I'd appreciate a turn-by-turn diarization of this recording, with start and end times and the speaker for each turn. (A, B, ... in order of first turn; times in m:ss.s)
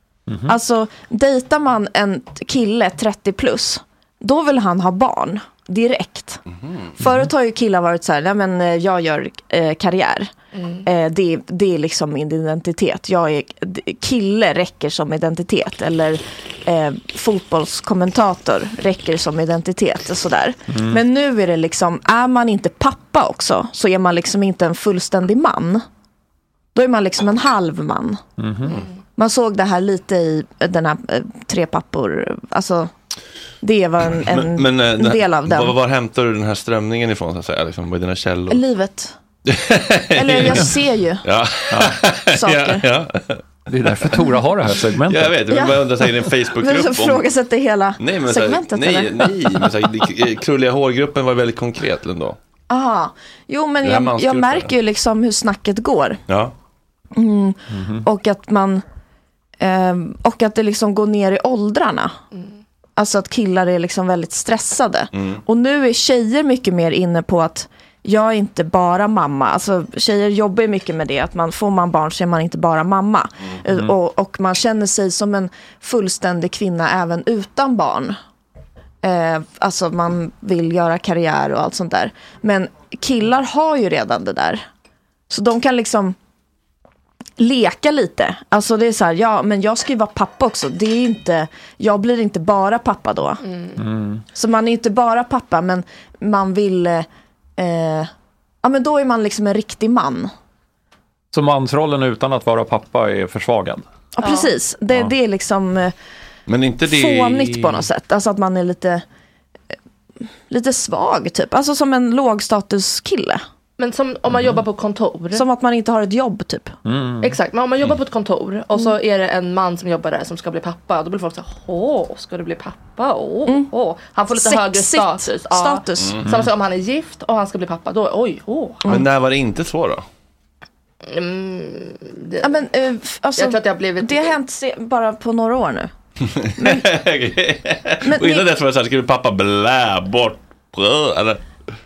0:00.3-0:00.5 A
0:00.5-0:06.4 B
0:07.0-0:10.3 B
0:07.0-0:07.3 A
0:10.5-0:10.9 C
0:10.8-0:25.8 B
0:20.7-0:21.0 A
0:26.8-0:28.2 B
0:28.4-0:28.8 A
0:29.2-0:32.9 B
0:33.6-0:35.8 B
0:34.2-0:38.6 D
0:38.5-0:39.2 B
0:39.5-0:43.4 D
0:40.1-0:41.2 B
0:41.7-0:42.0 A
0:42.3-0:42.9 B
0:43.7-0:45.4 A
0:45.1-0:47.3 D
0:45.5-0:45.9 B
0:46.6-0:49.7 B
0:48.0-0:52.4 D
0:52.7-0:56.2 B
0:53.8-0:54.7 D
0:56.3-0:56.5 D
0:57.2-0:58.8 B
0:57.7-0:58.0 A
0:59.6-1:02.2 B
1:03.0-1:18.2 B
1:05.1-1:05.4 D
1:19.0-1:24.6 B
1:25.3-1:26.2 B
1:27.4-1:33.4 B
1:33.4-1:33.8 C
1:33.8-1:34.2 A
1:34.3-1:38.1 B
1:38.6-1:40.3 B
1:41.3-1:43.8 A
1:44.2-1:45.9 B
1:44.2-1:44.5 C
1:46.5-1:47.9 D
1:46.8-1:49.0 B
1:50.5-1:53.4 B
1:53.8-1:55.4 C
1:55.3-1:56.7 B
1:56.9-1:57.3 A
1:57.2-2:08.8 C
2:04.3-2:06.2 B
2:08.9-2:10.0 D
2:11.1-2:12.6 C
2:12.4-2:15.9 B
2:13.4-2:14.4 C
2:16.4-2:21.4 D
2:16.6-2:16.9 B
2:18.0-2:18.5 B